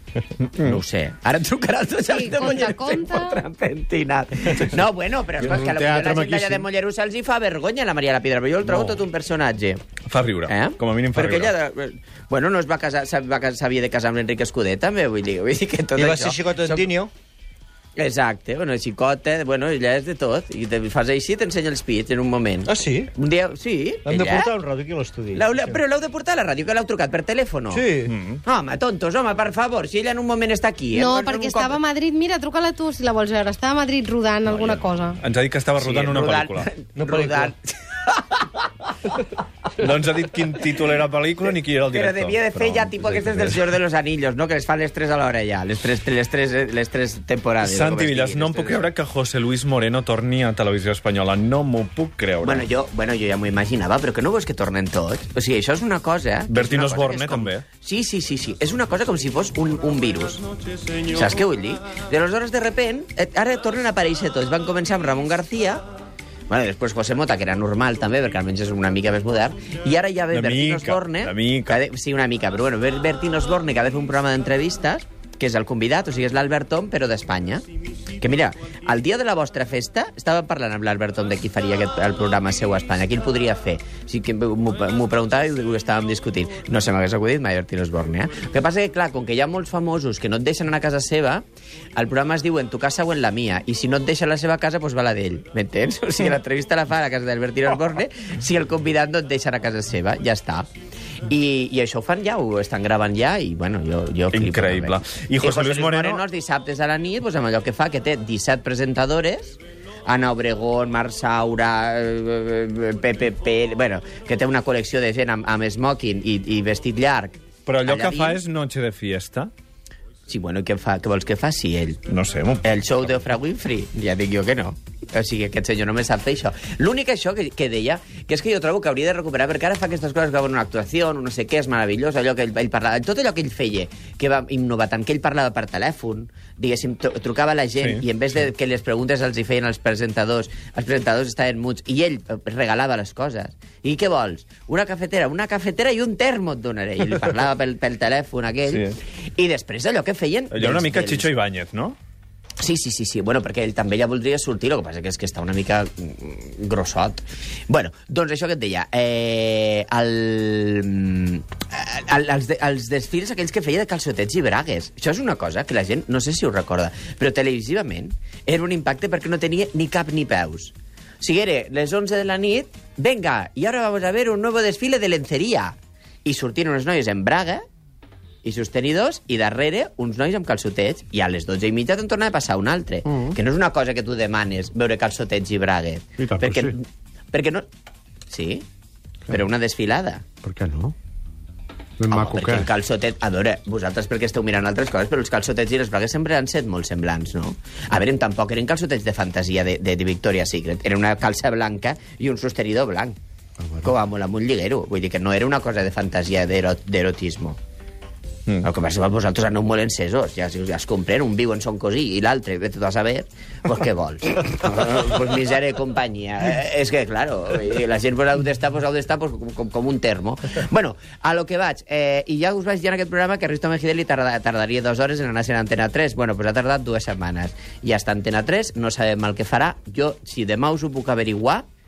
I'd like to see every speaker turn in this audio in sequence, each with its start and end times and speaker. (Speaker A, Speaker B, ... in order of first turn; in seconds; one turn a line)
Speaker A: 0.5-9.8
Speaker B: 2.1-3.4
Speaker C: 5.6-6.6
Speaker D: 8.7-9.0
Speaker D: 10.1-11.5
Speaker A: 10.5-16.9
Speaker E: 16.0-17.1
Speaker A: 17.9-24.5
Speaker E: 22.6-23.1
Speaker E: 24.0-25.8
Speaker A: 25.3-27.9
Speaker E: 27.7-28.1
Speaker D: 28.1-28.4
Speaker A: 28.4-31.8
Speaker B: 30.9-35.2
Speaker D: 34.5-36.7
Speaker A: 35.8-39.1
Speaker E: 37.0-37.5
Speaker D: 39.8-43.6
Speaker A: 41.9-48.9
Speaker D: 47.6-52.6
Speaker A: 52.4-60.4
Speaker D: 56.5-57.6
Speaker A: 61.0-65.8
Speaker A: 66.5-77.6
Speaker D: 70.3-71.8
Speaker A: 78.2-91.4
Speaker A: 92.0-100.7
Speaker A: 101.2-118.4
Speaker D: 104.3-106.2
Speaker D: 117.7-119.5
Speaker A: 120.3-122.0
Speaker D: 122.0-122.7
Speaker A: 122.6-151.3
Speaker D: 137.8-138.0
Speaker D: 148.7-149.0
Speaker D: 150.5-152.0
Speaker A: 152.6-177.6
Speaker A: 178.4-187.6
Speaker C: 186.2-186.7
Speaker A: 188.3-188.6
Speaker A: 189.3-190.2
Speaker C: 190.4-190.9
Speaker C: 192.0-192.7
Speaker A: 192.1-203.2
Speaker A: 203.8-207.6
Speaker A: 208.6-231.7